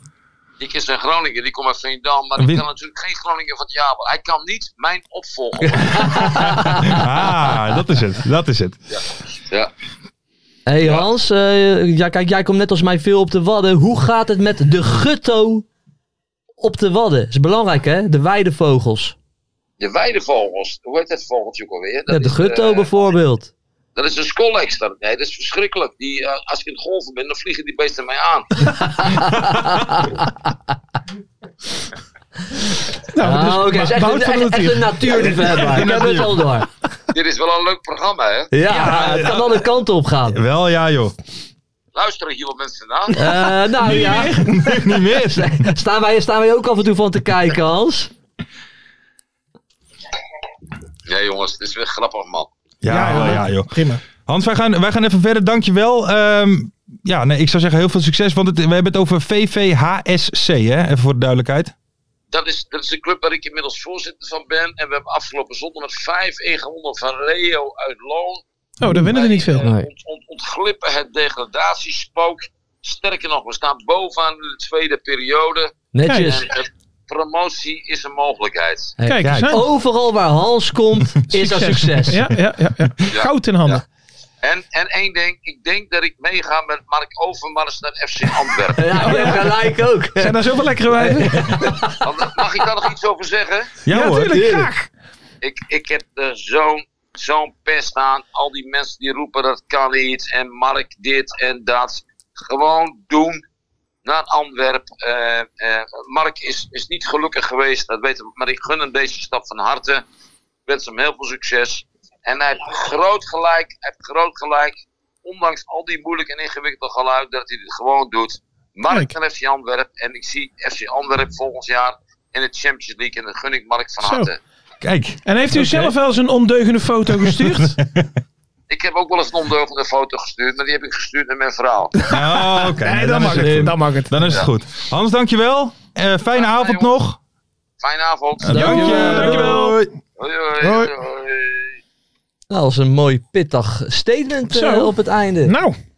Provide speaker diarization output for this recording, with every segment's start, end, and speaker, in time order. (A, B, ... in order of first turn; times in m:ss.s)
0:00.6-0:06.4 A
0:02.4-0:02.6 B
0:05.6-0:07.0 C
0:06.6-0:08.8 B
0:08.9-0:09.7 A
0:10.7-0:15.7 C
0:16.6-0:19.2 C
0:19.8-0:23.1 A
0:22.1-0:23.5 C
0:24.0-0:28.8 A
0:28.8-0:30.5 C
0:33.1-0:36.3 D
0:33.2-0:36.7 C
0:35.8-0:36.3 B
0:37.1-0:38.5 A
0:38.5-0:40.4 C
0:38.7-0:39.5 B
0:40.3-0:41.2 B
0:42.0-0:43.2 A
0:43.1-0:44.4 C
0:43.2-0:44.8 D
0:43.9-0:45.6 B
0:45.3-0:48.1 C
0:51.1-0:52.5 A
0:52.8-1:01.7 B
0:52.9-0:54.0 D
1:02.3-1:08.4 A
1:08.8-1:09.7 D
1:09.1-1:19.0 A
1:09.6-1:09.9 C
1:15.9-1:16.5 C
1:16.1-1:16.4 D
1:19.0-1:22.2 C
1:19.0-1:19.6 D
1:19.2-1:19.6 B
1:21.3-1:23.8 D
1:23.1-1:23.8 A
1:24.4-1:29.0 A
1:28.8-1:30.4 C
1:29.0-1:29.5 D
1:30.2-1:31.8 D
1:31.0-1:32.0 C
1:32.0-1:33.8 A
1:33.8-1:34.6 B
1:33.9-1:34.9 D
1:34.4-1:34.6 C
1:35.4-1:43.4 A
1:44.0-1:50.0 A
1:50.7-2:04.4 A
2:04.0-2:04.3 D
2:04.8-2:05.9 B
2:05.3-2:07.8 D
2:07.2-2:08.1 B
2:08.7-2:12.0 A
2:12.0-2:14.4 D
2:12.1-2:17.2 B
2:13.4-2:13.7 C
2:16.3-2:17.0 A
2:17.8-2:18.8 A
2:18.4-2:20.0 B
2:18.5-2:19.6 C
2:18.5-2:19.8 D
2:20.2-2:21.8 A
2:20.6-2:20.9 D
2:22.5-2:25.5 C
2:24.5-2:25.8 D